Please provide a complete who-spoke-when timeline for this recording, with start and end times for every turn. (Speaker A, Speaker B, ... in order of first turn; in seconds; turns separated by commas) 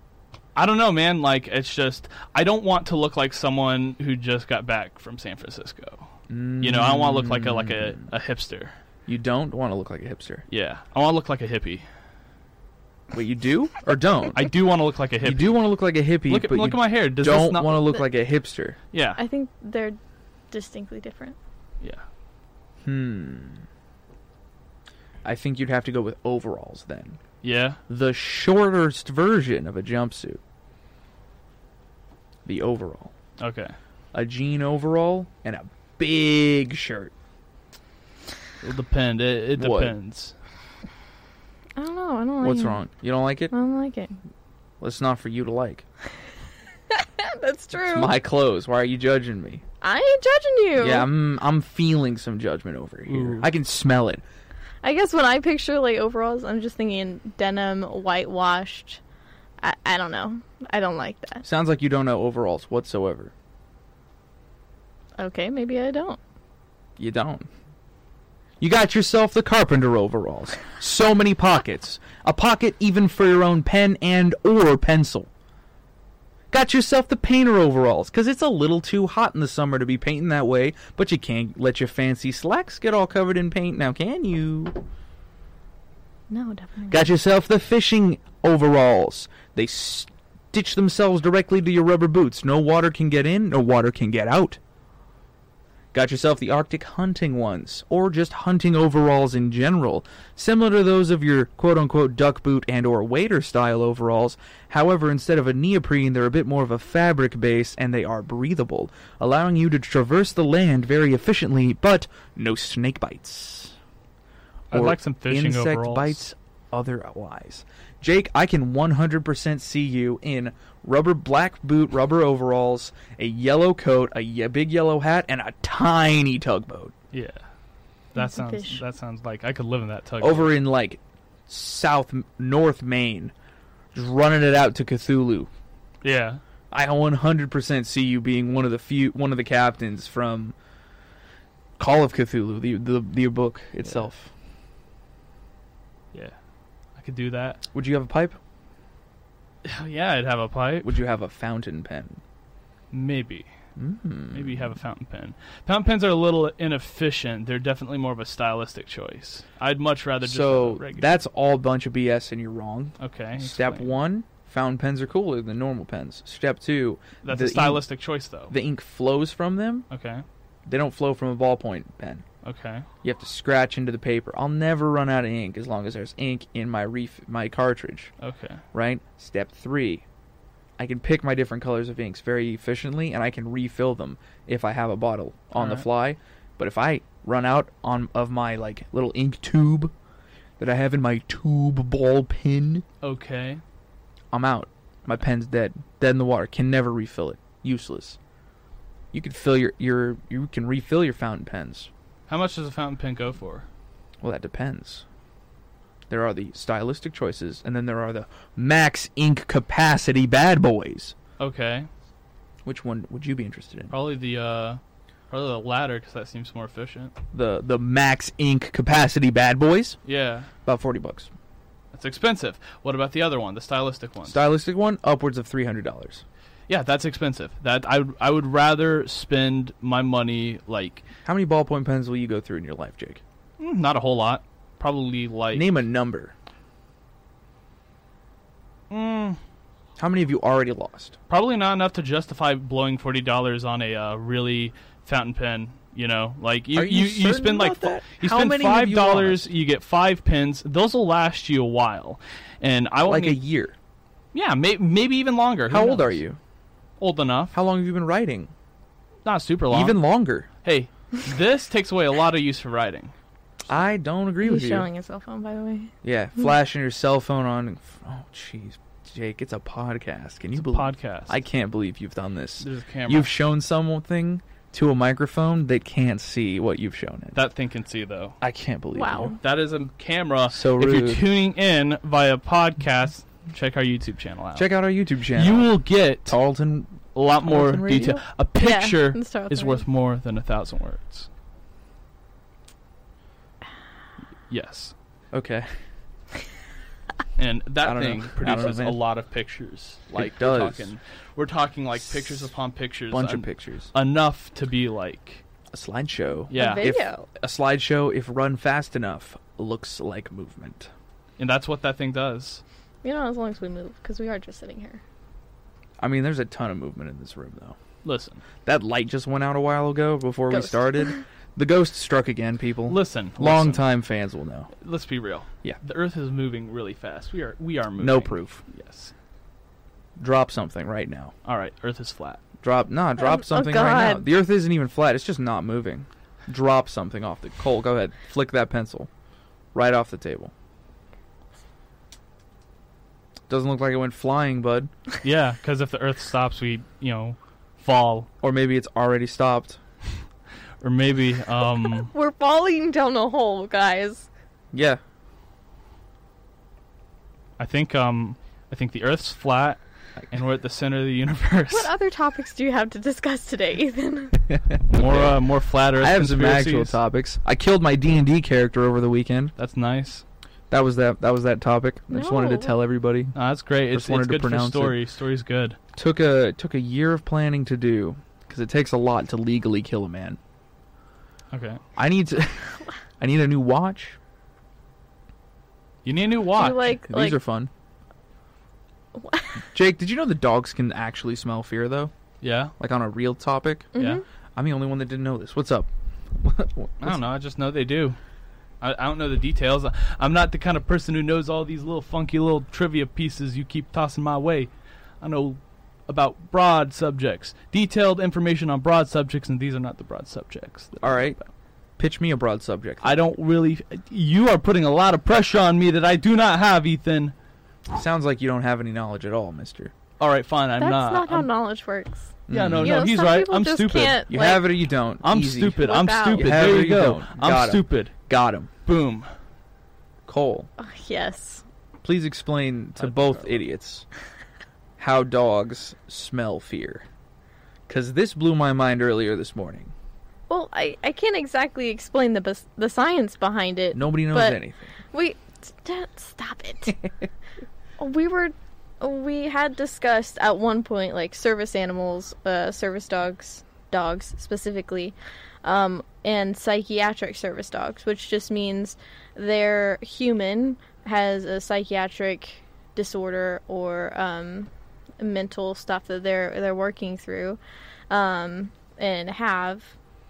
Speaker A: 0.6-6.1, Speaker B: 6.3-8.0, Speaker A: 6.6-8.7, Speaker B: 9.1-10.4, Speaker A: 10.5-11.8, Speaker B: 13.1-14.4, Speaker A: 14.3-15.6, Speaker B: 15.2-18.8, Speaker A: 16.3-18.0, Speaker A: 18.9-19.2, Speaker C: 19.2-20.0, Speaker C: 20.5-21.4, Speaker B: 22.8-23.6, Speaker B: 25.2-27.2, Speaker A: 27.4-27.8, Speaker B: 27.9-30.4, Speaker B: 32.5-33.1, Speaker A: 33.4-33.8, Speaker B: 34.1-37.1, Speaker A: 38.6-40.3, Speaker B: 39.6-40.0, Speaker C: 41.8-42.8, Speaker B: 42.4-43.5, Speaker C: 43.5-44.2, Speaker B: 44.8-45.8, Speaker C: 46.9-48.1, Speaker B: 47.7-49.6, Speaker C: 49.8-51.1, Speaker B: 50.8-54.2, Speaker A: 53.1-53.5, Speaker C: 54.8-59.0, Speaker C: 59.6-61.4, Speaker B: 61.4-63.3, Speaker C: 65.2-66.2, Speaker B: 67.0-67.5, Speaker B: 68.6-75.3, Speaker B: 76.5-84.8, Speaker C: 86.3-87.1, Speaker B: 86.9-94.6, Speaker B: 95.9-113.8, Speaker A: 114.7-116.2, Speaker B: 114.7-126.9, Speaker A: 127.1-127.4, Speaker C: 128.2-128.8, Speaker A: 128.2-130.5, Speaker B: 130.2-133.3, Speaker B: 133.9-135.5, Speaker A: 136.0-136.4, Speaker B: 136.7-140.6, Speaker B: 141.8-144.3, Speaker A: 147.0-147.6, Speaker B: 147.7-148.4, Speaker A: 149.7-150.9, Speaker B: 150.8-152.2, Speaker A: 152.9-153.5, Speaker B: 153.8-154.7, Speaker A: 154.3-161.1, Speaker B: 160.2-167.8, Speaker A: 163.0-163.9, Speaker A: 167.2-168.5, Speaker B: 168.5-169.9, Speaker A: 169.9-170.2, Speaker B: 170.7-172.2, Speaker A: 172.4-172.9, Speaker B: 173.0-178.1, Speaker A: 178.2-178.6, Speaker B: 178.7-180.1, Speaker B: 180.8-189.9, Speaker A: 185.6-185.9, Speaker B: 190.6-192.8, Speaker A: 193.0-193.6, Speaker B: 194.3-198.2, Speaker B: 199.1-201.9, Speaker A: 202.3-203.7, Speaker B: 204.2-205.1, Speaker B: 206.1-211.2, Speaker A: 211.4-211.9, Speaker B: 212.7-213.9, Speaker A: 213.9-217.2, Speaker B: 217.3-220.0, Speaker A: 220.1-220.5, Speaker B: 220.7-221.3, Speaker A: 221.9-224.4, Speaker B: 224.3-226.2, Speaker A: 226.7-231.0, Speaker B: 231.2-233.2, Speaker A: 233.6-235.7, Speaker B: 235.5-236.3, Speaker A: 238.9-239.4, Speaker B: 240.0-241.2, Speaker A: 241.3-253.4, Speaker B: 246.7-249.5, Speaker B: 253.0-253.8, Speaker A: 254.3-256.2, Speaker B: 255.7-256.4, Speaker A: 257.0-257.6, Speaker B: 257.5-258.5, Speaker A: 259.2-260.0, Speaker B: 259.7-260.5, Speaker A: 260.6-263.1, Speaker B: 263.7-264.9, Speaker C: 264.4-265.9, Speaker B: 266.0-277.4, Speaker A: 270.6-271.4, Speaker A: 272.6-273.3, Speaker A: 277.3-278.4, Speaker B: 278.4-279.4, Speaker C: 278.9-279.4, Speaker A: 279.4-284.7, Speaker B: 280.5-281.2, Speaker B: 284.6-285.7, Speaker A: 285.3-286.4, Speaker B: 286.2-288.2, Speaker A: 287.1-291.3, Speaker C: 288.6-289.8, Speaker A: 294.5-294.9, Speaker B: 295.3-295.7, Speaker A: 297.4-305.4, Speaker B: 297.8-299.0, Speaker B: 300.1-300.9, Speaker B: 303.1-303.9, Speaker B: 305.7-310.9, Speaker A: 306.5-306.9, Speaker C: 306.5-307.3, Speaker A: 311.4-312.6, Speaker C: 313.0-315.0, Speaker B: 316.0-317.8, Speaker A: 318.0-318.4, Speaker B: 318.6-324.7, Speaker C: 320.5-321.2, Speaker A: 322.9-323.9, Speaker A: 324.8-329.1, Speaker B: 328.0-328.6, Speaker B: 330.2-331.3, Speaker A: 331.4-332.4, Speaker B: 332.6-339.1, Speaker C: 333.2-334.3, Speaker B: 339.7-340.5, Speaker B: 343.5-344.9, Speaker A: 345.2-348.3, Speaker B: 348.4-349.8, Speaker A: 350.8-352.1, Speaker C: 352.0-354.3, Speaker B: 354.7-355.0, Speaker A: 357.6-361.9, Speaker C: 361.7-364.5, Speaker B: 364.7-365.4, Speaker A: 364.9-367.0, Speaker B: 366.0-369.5, Speaker A: 369.6-370.2, Speaker B: 370.7-373.4, Speaker C: 372.1-372.7, Speaker A: 373.4-375.8, Speaker B: 373.9-375.0, Speaker B: 375.9-380.4, Speaker A: 381.5-381.8, Speaker B: 382.0-384.2, Speaker A: 386.0-386.9, Speaker C: 386.6-387.4, Speaker B: 386.9-387.7, Speaker C: 389.2-389.6, Speaker B: 389.7-392.1, Speaker A: 392.4-392.7, Speaker B: 392.8-393.9, Speaker C: 393.9-394.2, Speaker A: 394.0-394.2, Speaker B: 394.6-397.2, Speaker A: 397.0-398.2, Speaker A: 398.8-411.4, Speaker B: 411.0-411.4, Speaker B: 412.0-413.2, Speaker A: 413.0-417.3, Speaker B: 417.9-419.9, Speaker A: 420.2-421.5, Speaker C: 420.8-424.7, Speaker B: 422.5-423.1, Speaker A: 422.5-424.3, Speaker B: 424.3-428.7, Speaker A: 425.2-428.1, Speaker C: 425.8-426.6, Speaker A: 428.9-429.3, Speaker B: 430.3-430.7, Speaker C: 430.8-431.6, Speaker B: 432.0-434.1, Speaker A: 433.0-433.6, Speaker B: 435.0-437.1, Speaker B: 437.9-439.9, Speaker C: 440.5-444.6, Speaker B: 443.9-444.9, Speaker C: 445.1-447.0, Speaker C: 448.0-467.6, Speaker C: 468.1-470.0